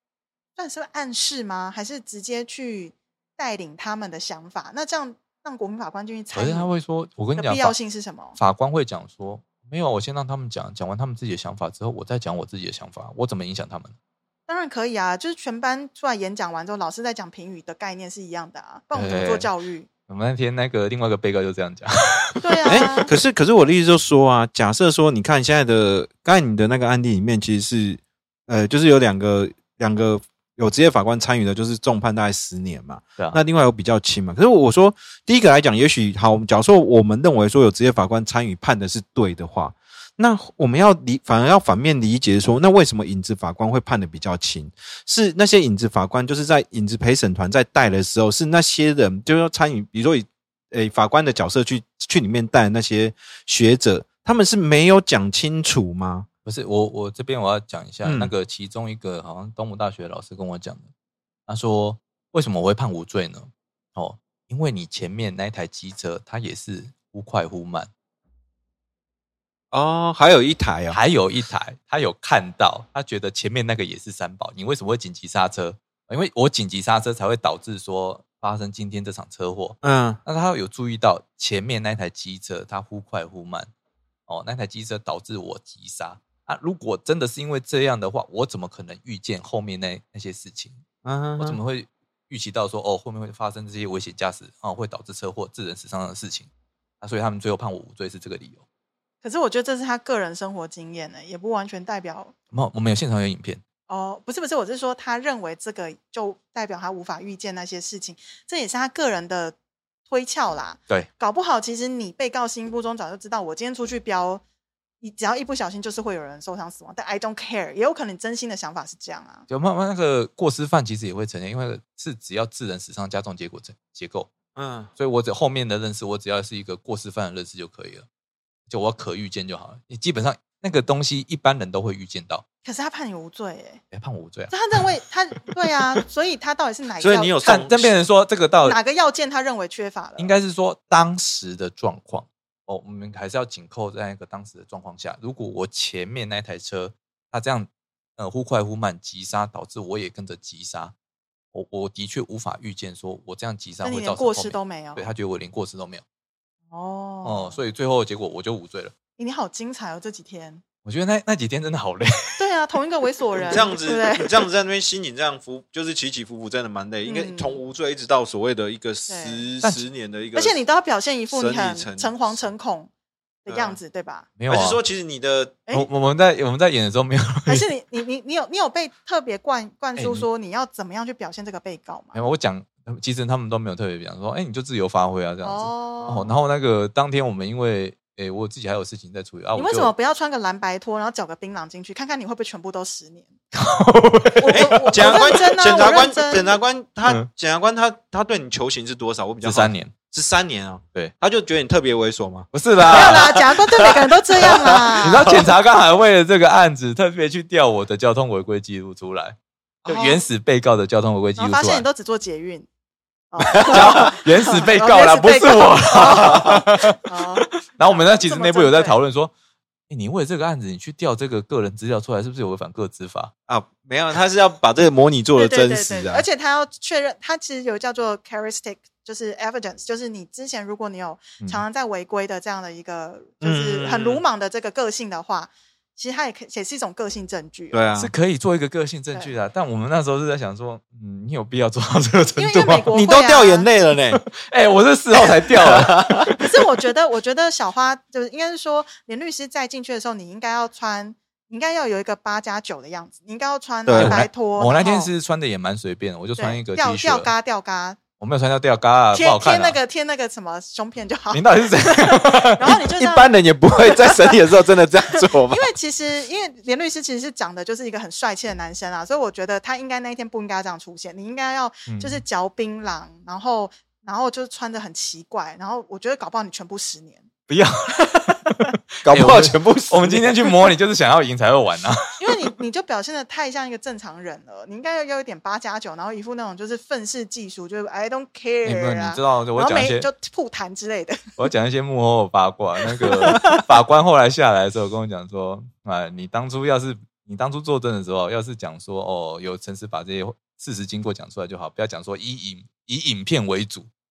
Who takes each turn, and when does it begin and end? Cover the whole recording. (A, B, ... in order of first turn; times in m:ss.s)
0:00.6-0:06.7 A
0:06.3-0:07.8 B
0:07.4-0:08.4 A
0:08.4-0:13.9 B
0:14.5-0:19.9 A
0:18.9-0:19.5 B
0:20.1-0:22.9 B
0:22.4-0:23.1 A
0:22.7-0:56.3 C
0:56.5-1:00.9 B
0:58.0-0:58.3 C
1:01.5-1:07.9 B
1:09.7-1:11.0 C
1:10.9-1:23.7 B
1:19.8-1:20.2 C
1:24.3-1:30.8 B
1:31.0-1:31.6 C
1:31.4-1:36.5 B
1:37.0-1:38.6 B
1:39.2-1:42.3 A
1:42.5-1:43.6 B
1:43.9-1:49.6 A
1:50.1-1:54.4 A
1:55.0-1:59.4 A
1:59.5-2:04.3 B
2:04.6-2:04.9 C
2:05.0-2:08.1 B
2:08.7-2:12.4 B
2:12.6-2:13.8 A
2:13.9-2:14.6 B
2:14.5-2:17.6 A
2:15.6-2:16.0 B
2:17.0-2:17.9 C
2:17.4-2:18.8 B
2:18.6-2:20.3 A
2:20.2-2:30.9 B
2:31.5-2:36.0 B
2:33.8-2:35.1 A
2:36.7-2:37.6 A
2:37.2-2:38.9 B
2:39.2-2:40.6 A
2:40.8-2:42.4 B
2:42.4-2:44.4 A
2:43.4-2:50.6 C
2:47.1-2:47.6 A
2:49.1-2:49.4 A
2:50.4-2:52.9 A
2:51.3-2:52.2 C
2:53.4-2:54.3 A
2:53.5-2:53.8 C
2:54.4-2:54.8 B
2:54.5-2:55.6 C
2:55.7-2:57.7 B
2:57.5-3:02.2 A
3:00.0-3:00.3 B
3:02.1-3:09.9 B
3:05.4-3:06.3 A
3:09.6-3:13.3 A
3:13.5-3:15.2 B
3:14.4-3:16.6 A
3:14.5-3:25.5 C
3:19.4-3:19.9 B
3:22.5-3:23.4 B
3:22.9-3:25.4 A
3:25.0-3:31.9 B
3:29.9-3:30.2 A
3:31.4-3:32.7 A
3:33.3-3:39.0 A
3:33.5-3:34.1 C
3:33.6-3:39.3 B
3:36.2-3:36.6 C
3:39.9-3:43.3 B
3:43.5-3:46.2 C
3:45.4-3:57.8 A
3:53.4-3:54.2 C
3:57.7-3:58.1 C
3:58.0-4:02.9 B
4:02.4-4:03.7 A
4:02.9-4:04.2 C
4:04.1-4:06.4 B
4:05.5-4:06.3 C
4:06.4-4:15.1 A
4:13.9-4:14.2 C
4:13.9-4:17.3 B
4:16.4-4:18.0 A
4:18.2-4:19.8 B
4:19.1-4:24.4 A
4:21.3-4:22.8 B
4:22.8-4:25.7 C
4:25.1-4:37.3 A
4:31.9-4:32.2 B
4:37.5-4:42.5 B
4:39.0-4:40.7 C
4:42.2-4:51.4 A
4:48.6-4:50.1 B
4:51.4-5:03.9 B
4:53.0-4:53.6 A